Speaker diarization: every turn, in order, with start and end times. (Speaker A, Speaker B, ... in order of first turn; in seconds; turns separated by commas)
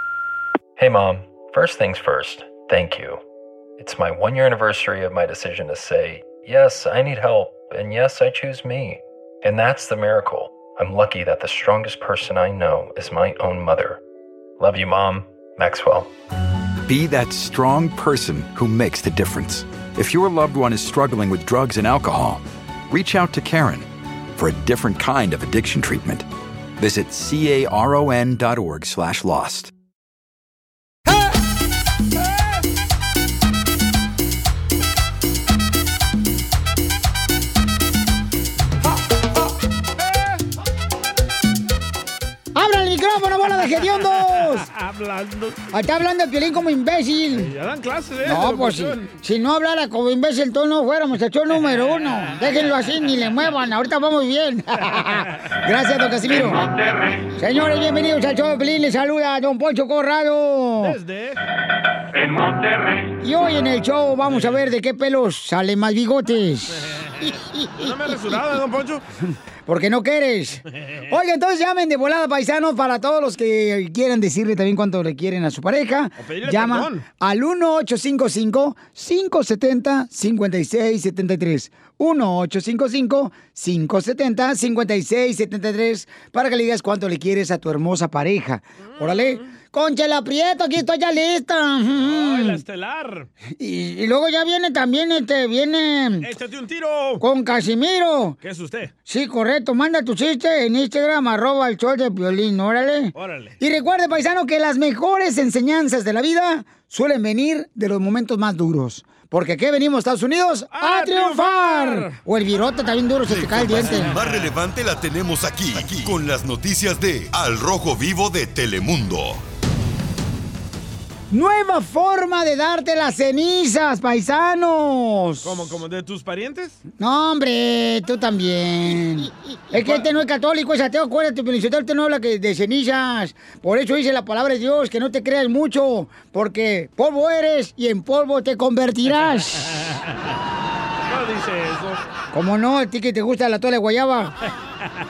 Speaker A: 0.8-3.2, Speaker A: 3.8-14.0, Speaker A: 14.6-16.1, Speaker B: 16.9-26.3, Speaker B: 26.8-29.7, Speaker C: 42.5-44.7, Speaker D: 44.0-45.7, Speaker C: 45.7-47.5, Speaker D: 47.4-49.1, Speaker C: 48.2-56.7, Speaker C: 57.4-61.0, Speaker D: 60.8-61.4, Speaker C: 63.2-68.4, Speaker D: 64.3-64.5, Speaker D: 66.9-69.0, Speaker C: 69.7-92.6, Speaker D: 76.2-77.0, Speaker D: 88.9-89.5, Speaker D: 92.0-93.3, Speaker C: 93.6-96.3, Speaker D: 96.2-97.2, Speaker C: 97.2-98.4, Speaker D: 98.4-98.9, Speaker C: 99.1-114.2, Speaker D: 103.2-103.6, Speaker D: 110.7-112.2, Speaker D: 113.3-114.5, Speaker E: 114.0-119.4, Speaker C: 121.3-125.6, Speaker D: 125.4-126.8, Speaker C: 127.0-139.8, Speaker D: 129.7-130.1, Speaker D: 139.7-140.1, Speaker D: 141.1-142.0, Speaker C: 142.3-144.3